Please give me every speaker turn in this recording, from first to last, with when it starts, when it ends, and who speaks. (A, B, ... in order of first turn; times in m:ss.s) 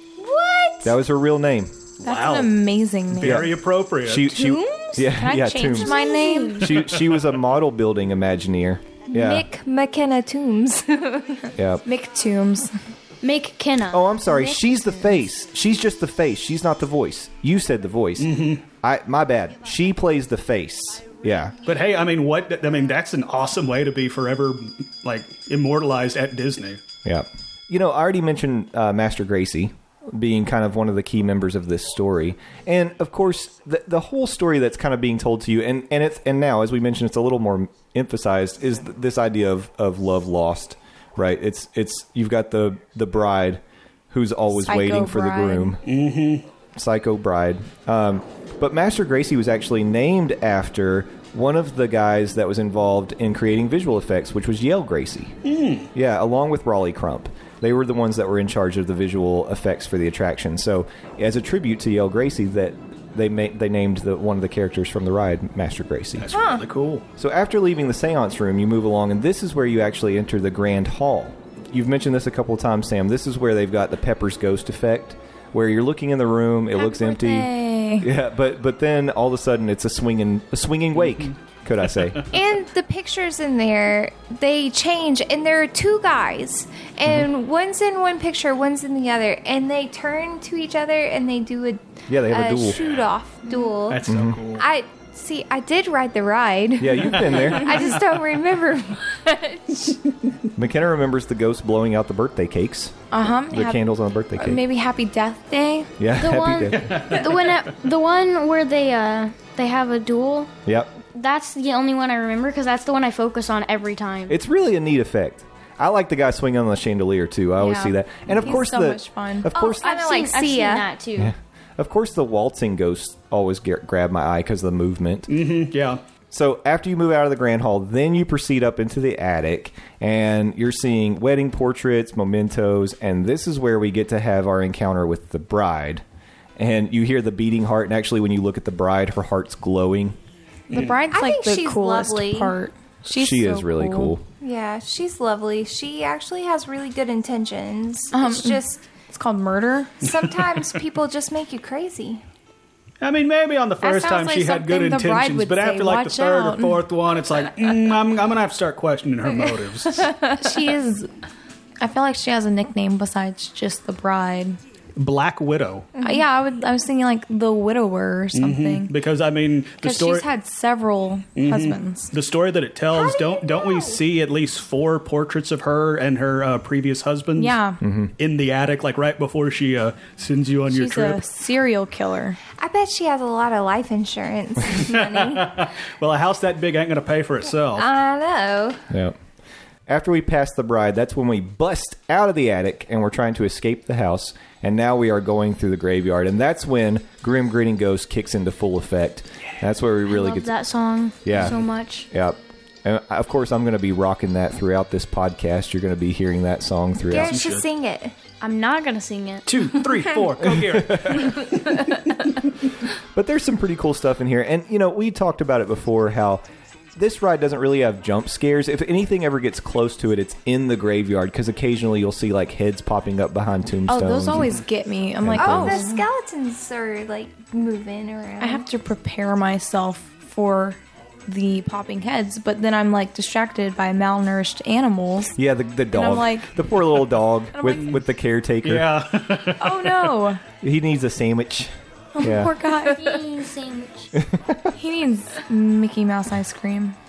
0:00.2-0:01.0 A
0:00.8-0:01.8 B
0:02.0-0:02.6 C
0:02.0-0:03.5 D
0:03.1-0:04.3 C
0:03.2-0:09.5 B
0:04.3-0:05.1 A
0:05.1-0:06.8 D
0:05.8-0:06.5 A
0:06.1-0:06.5 E
0:06.9-0:07.2 C
0:09.1-0:11.5 A
0:11.6-0:11.8 B
0:11.8-0:12.8 D
0:13.2-0:14.1 E
0:13.9-0:21.6 B
0:18.2-0:18.6 C
0:21.6-0:26.8 C
0:27.0-0:45.8 B
0:44.7-0:45.8 D
0:45.8-0:46.4 C
0:46.8-0:55.4 B
0:55.4-0:55.9 C
0:55.9-1:06.3 B
1:06.2-1:07.0 C
1:06.3-1:06.6 A
1:07.2-1:22.2 B
1:16.8-1:18.1 D
1:22.3-1:34.0 A
1:32.1-1:32.8 B
1:32.8-1:33.1 C
1:33.8-1:34.7 C
1:34.1-1:34.4 B
1:34.6-1:40.0 A
1:36.8-1:37.8 B
1:37.2-1:37.8 C
1:40.6-1:43.0 B
1:43.1-1:45.9 D
1:43.5-1:44.6 B
1:46.0-1:47.0 B
1:46.2-1:50.5 E
1:46.8-1:47.4 C
1:50.7-1:50.9 B
1:51.0-1:54.4 E
1:54.3-1:59.9 B
1:57.6-1:59.5 D
1:59.5-2:00.9 A
1:59.8-2:01.3 E
2:01.2-2:05.3 B
2:05.3-2:06.0 C
2:06.3-2:16.0 B
2:16.6-2:20.2 B
2:20.7-2:24.2 D
2:21.1-2:22.6 A
2:23.1-2:24.2 B
2:24.4-2:28.8 A
2:28.1-2:30.0 D
2:30.0-2:32.2 A
2:30.3-2:30.8 C
2:33.0-2:40.1 C
2:33.8-2:36.8 D
2:40.0-2:40.4 A
2:40.4-2:41.1 D
2:41.8-2:44.6 D
2:45.0-2:45.9 C
2:46.0-2:46.2 A
2:46.0-2:48.9 D
2:48.3-2:50.2 C
2:49.8-2:52.1 D
2:51.4-2:57.6 C
2:52.9-2:54.0 A
2:57.4-2:57.8 D
2:57.8-2:58.1 B
2:58.2-3:01.2 C
3:00.7-3:02.4 D
3:02.6-3:05.7 A
3:04.8-3:07.9 C
3:07.8-3:08.8 A
3:08.9-3:09.2 B
3:09.9-3:20.5 B
3:20.1-3:22.1 E
3:21.2-3:21.6 B
3:22.1-3:27.4 B
3:27.1-3:28.2 A
3:27.1-3:27.6 C
3:28.4-3:29.6 E
3:29.5-3:32.0 C
3:30.4-3:31.4 B
3:33.1-3:44.5 B
3:43.9-3:46.0 D
3:45.2-3:45.8 B
3:45.4-3:48.6 A
3:48.4-3:55.4 D
3:55.4-3:58.9 B
3:55.9-3:56.5 D
3:57.6-3:57.9 D
3:57.7-3:58.0 C
3:58.6-4:00.0 C
3:59.6-4:00.4 D
4:00.6-4:02.6 B
4:02.2-4:03.2 D
4:02.8-4:04.2 E
4:04.2-4:04.7 B
4:04.8-4:07.0 D